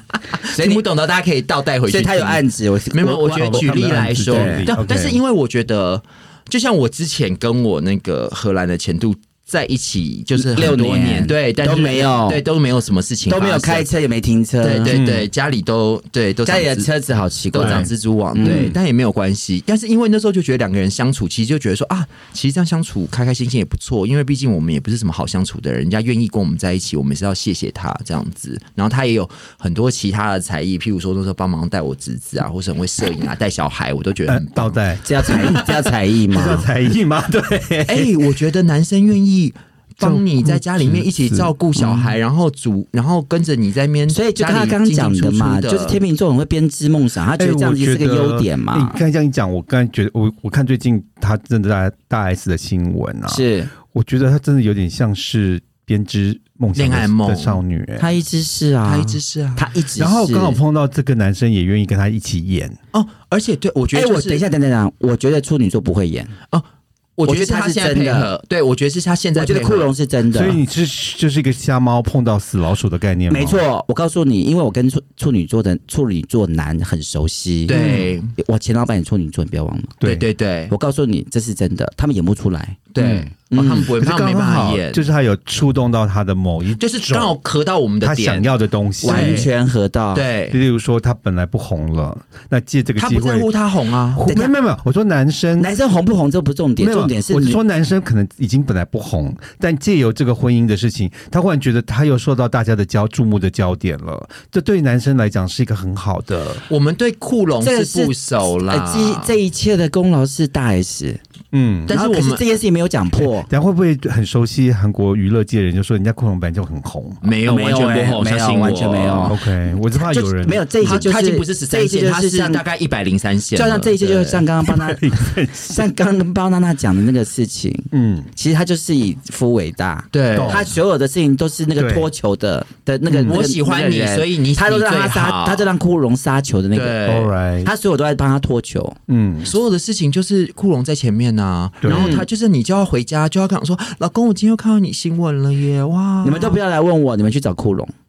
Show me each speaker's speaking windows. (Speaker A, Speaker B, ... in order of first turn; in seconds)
Speaker A: 0.5-13.9, 14.6-16.9, 17.5-35.7, 37.9-46.0, 56.8-57.6, 58.9-59.7, 62.9-64.4, 67.2-69.9, 77.7-78.3, 80.0-80.7, 82.9-85.0, 86.8-88.5, 89.0-89.5, 90.1-90.6, 93.0-94.5, 106.7-109.4, 111.9-112.4, 117.2-119.3, 120.8-124.4, 130.1-130.7, 133.3-135.7, 136.7-137.3, 139.5-146.6
Speaker B: 0.5-0.8, 1.9-4.7, 10.4-12.4, 13.3-15.0, 16.4-18.8, 35.0-36.7, 44.1-49.0, 53.3-53.7, 58.0-60.6, 63.9-66.3, 67.2-68.3, 69.4-70.6, 73.3-80.0, 80.7-83.9, 89.0-90.3, 95.6-97.6, 107.6-111.2, 111.9-113.5, 117.5-119.4, 119.9-122.6, 123.5-137.0, 137.6-139.0, 141.9-142.2, 146.2-147.9
Speaker C: 3.4-5.2, 14.9-15.3, 17.6-17.9, 34.3-35.7, 36.3-38.2, 40.0-41.5, 47.4-58.1, 60.0-62.8, 70.3-73.6, 80.0-80.3, 84.0-87.4, 88.0-89.5, 90.5-93.5, 94.1-95.7, 96.8-106.6, 111.5-112.0, 113.2-117.2, 119.3-121.0, 124.7-125.9, 127.9-128.3, 130.3-130.7, 131.8-132.1, 133.1-133.4, 137.1-137.7, 139.1-139.5, 141.8-142.3